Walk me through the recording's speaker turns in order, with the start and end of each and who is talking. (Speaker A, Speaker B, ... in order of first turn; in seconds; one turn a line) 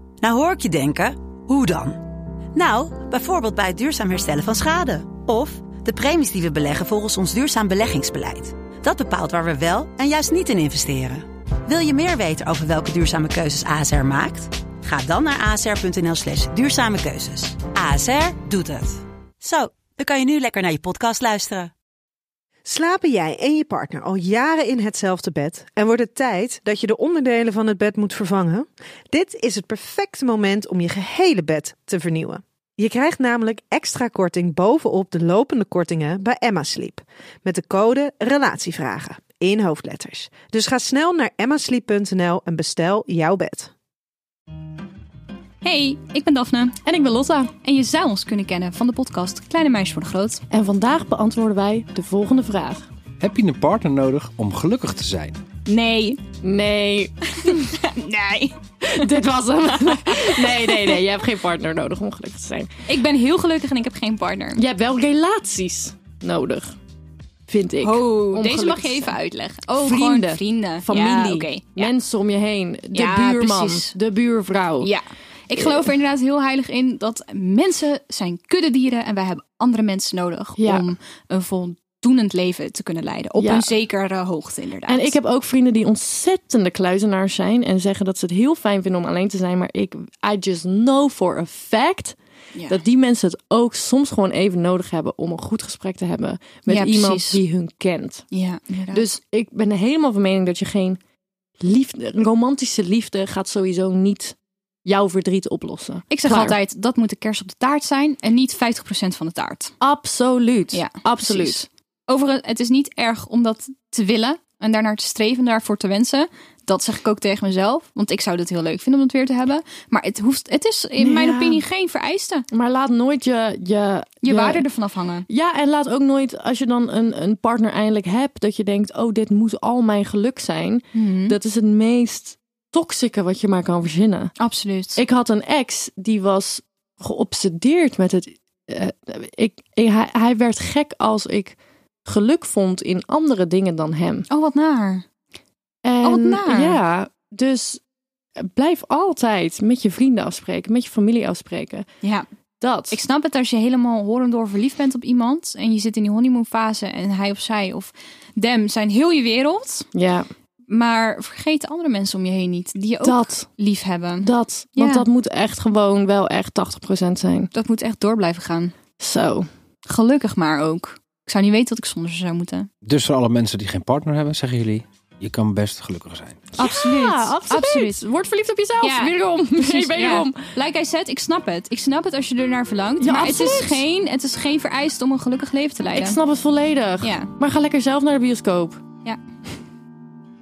Speaker A: 0.2-2.0
Speaker A: 2.5-21.7
Speaker B: 22.6-43.7
Speaker C: 45.6-46.8
Speaker D: 46.8-47.5
Speaker C: 47.6-50.4
Speaker D: 50.5-52.9
Speaker E: 53.2-55.4
Speaker C: 55.6-56.2
Speaker D: 56.4-57.7
Speaker C: 57.4-59.1
Speaker D: 58.9-62.7
Speaker C: 59.7-61.0
Speaker C: 62.9-64.6
Speaker D: 64.5-66.8
Speaker D: 67.5-69.2
Speaker C: 67.8-71.9
Speaker D: 69.8-74.9
Speaker C: 72.9-73.9
Speaker C: 74.8-85.2
Speaker D: 75.5-75.9
Speaker D: 80.6-80.9
Speaker D: 83.4-83.7
Speaker D: 84.8-92.2
Speaker C: 92.5-92.8
Speaker D: 92.7-98.2
Speaker C: 96.7-97.4
Speaker C: 98.3-99.1
Speaker D: 98.9-101.0
Speaker D: 101.6-106.6
Speaker C: 106.1-109.7
Speaker D: 109.8-111.6
Speaker C: 110.7-122.4
Speaker D: 121.0-121.6
Speaker D: 122.5-124.6
Speaker C: 124.2-125.2
Speaker D: 125.3-134.3
Speaker C: 130.9-131.3
Speaker C: 134.4-135.0
Speaker D: 134.9-144.2
Speaker C: 144.3-145.0
Speaker D: 145.8-147.8
Speaker C: 146.0-146.8
Speaker D: 148.4-151.8
Speaker D: 152.6-153.0
Speaker C: 152.9-159.9
Speaker D: 159.9-160.3
Speaker C: 160.7-165.1
Speaker D: 163.0-163.5
Speaker D: 164.2-167.5
Speaker C: 167.5-168.7
Speaker D: 169.0-169.5
Speaker C: 169.8-172.7
Speaker E: 172.8-176.4
Speaker D: 176.5-180.4
Speaker C: 176.6-178.0
Speaker C: 178.8-186.2
Speaker D: 183.0-183.8
Speaker D: 185.9-188.8
Speaker C: 187.0-187.3